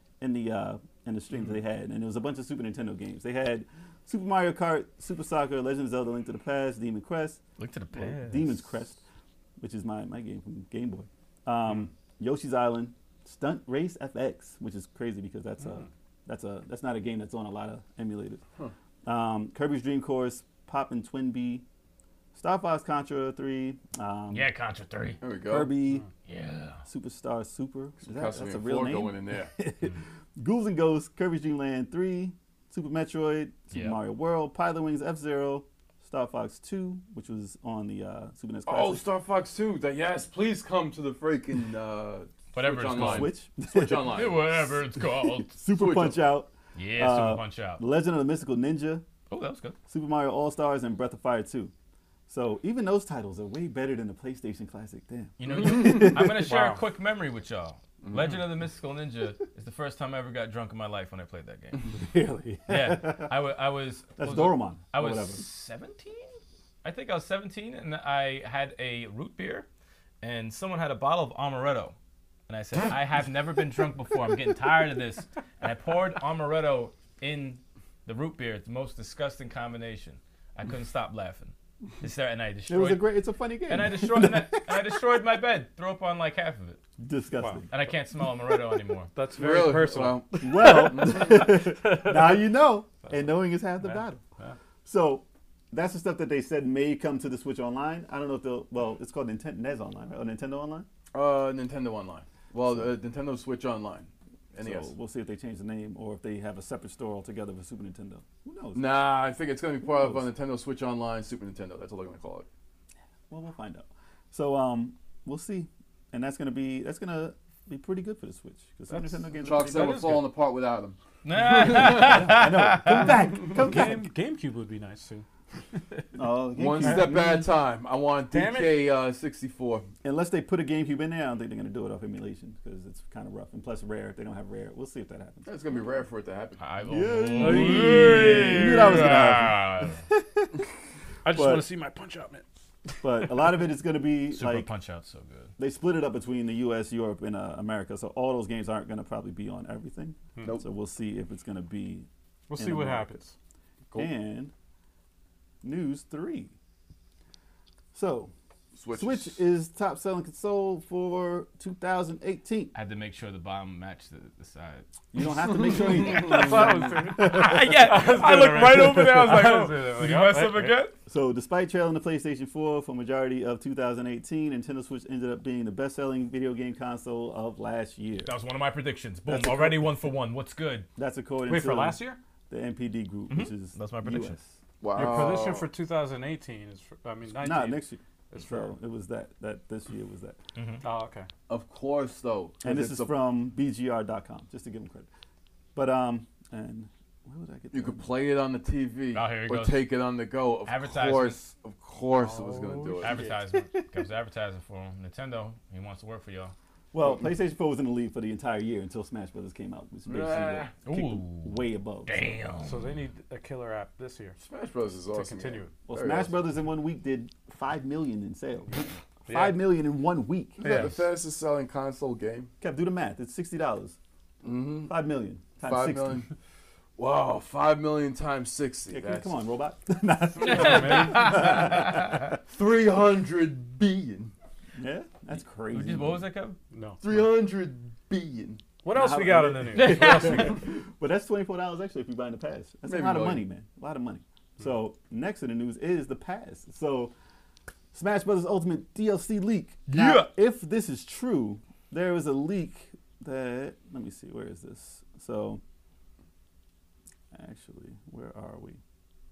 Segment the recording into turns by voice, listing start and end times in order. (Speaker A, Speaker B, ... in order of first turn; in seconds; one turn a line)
Speaker A: 0.2-7.4
Speaker B: 7.6-8.6
Speaker A: 8.0-9.0
Speaker A: 9.6-18.4
Speaker A: 19.1-21.6
Speaker A: 22.3-24.5
Speaker B: 24.3-25.2
Speaker C: 25.2-25.8
Speaker A: 25.5-26.1
Speaker B: 26.2-26.8
Speaker A: 26.9-39.0
Speaker C: 28.0-29.5
Speaker B: 33.7-34.0
Speaker C: 38.7-44.5
Speaker B: 42.5-43.3
Speaker A: 42.9-44.5
Speaker B: 44.1-45.5
Speaker A: 45.5-49.0
Speaker C: 45.7-46.3
Speaker B: 46.7-47.8
Speaker B: 49.3-49.8
Speaker A: 49.9-51.7
Speaker A: 52.3-56.5
Speaker B: 55.4-61.9
Speaker D: 56.4-56.8
Speaker C: 58.0-58.4
Speaker A: 61.9-63.4
Speaker B: 62.7-69.7
Speaker A: 64.2-65.4
Speaker B: 70.2-71.9
Speaker B: 72.5-83.1
Speaker A: 82.7-85.0
Speaker B: 83.7-86.8
Speaker A: 87.0-87.7
Speaker B: 87.7-89.1
Speaker D: 89.1-91.3
Speaker C: 89.4-91.4
Speaker A: 90.4-94.2
Speaker D: 91.8-92.2
Speaker D: 93.8-94.6
Speaker A: 94.8-100.9
Speaker C: 101.1-104.9
Speaker A: 102.6-102.9
Speaker A: 104.6-109.0
Speaker C: 108.7-112.5
Speaker A: 110.0-110.2
Speaker A: 113.3-120.2
Speaker D: 118.9-120.2
Speaker C: 119.4-121.0
Speaker B: 121.2-123.3
Speaker A: 121.6-124.1
Speaker C: 121.6-122.1
Speaker D: 123.3-125.2
Speaker A: 126.1-127.4
Speaker C: 126.5-129.8
Speaker D: 126.8-127.4
Speaker D: 128.3-128.8
Speaker A: 130.0-135.5
Speaker C: 135.4-136.6
Speaker B: 136.6-140.0
Speaker A: 136.9-140.6
Speaker D: 137.4-138.6
Speaker D: 141.2-142.4
Speaker A: 141.3-141.7
Speaker A: 143.0-144.7
Speaker B: 144.3-145.5
Speaker A: 145.6-153.2
Speaker D: 152.5-153.3
Speaker A: 153.9-154.5
Speaker A: 155.6-156.5
Speaker A: 157.9-158.3
Speaker C: 158.7-159.4
Speaker A: 158.9-162.7
Speaker B: 162.7-164.9
Speaker A: 165.1-168.8
Speaker C: 165.5-166.6
Speaker D: 166.1-170.8
Speaker B: 167.2-170.9
Speaker A: 171.1-178.3
Speaker B: 178.2-180.9
Speaker A: 179.3-180.0
Speaker A: 181.0-184.5
Speaker D: 181.5-182.2
Speaker B: 183.3-184.4
Speaker C: 184.8-185.7
Speaker D: 184.9-187.8
Speaker A: 185.0-185.3
Speaker A: 187.3-190.4
Speaker B: 190.6-190.8
Speaker D: 190.8-191.3
Speaker C: 191.5-193.2
Speaker A: 192.6-195.1
Speaker A: 195.7-198.1
Speaker C: 197.7-203.1
Speaker B: 199.1-199.8
Speaker B: 200.6-201.5
Speaker D: 202.3-203.0
Speaker B: 203.0-206.5
Speaker A: 203.1-203.9
Speaker A: 206.9-212.4
Speaker C: 210.1-210.7
Speaker B: 210.8-212.8
Speaker D: 212.6-214.4
Speaker C: 214.4-216.4
Speaker D: 215.1-215.7
Speaker A: 215.9-220.9
Speaker D: 219.3-219.6
Speaker D: 220.6-221.0
Speaker C: 220.6-222.5
Speaker A: 222.6-224.0
Speaker C: 224.4-224.9
Speaker A: 224.8-226.2
Speaker C: 225.6-226.3
Speaker C: 227.0-229.3
Speaker A: 228.9-232.4
Speaker B: 230.4-232.3
Speaker D: 230.4-231.4
Speaker C: 232.5-234.3
Speaker A: 234.8-236.2
Speaker B: 235.7-236.6
Speaker D: 236.7-237.0
Speaker C: 237.0-238.6
Speaker D: 238.8-240.6
Speaker A: 238.9-247.1
Speaker B: 239.7-240.6
Speaker C: 242.8-243.4
Speaker A: 247.9-255.6
Speaker B: 249.9-250.3
Speaker A: 257.3-258.8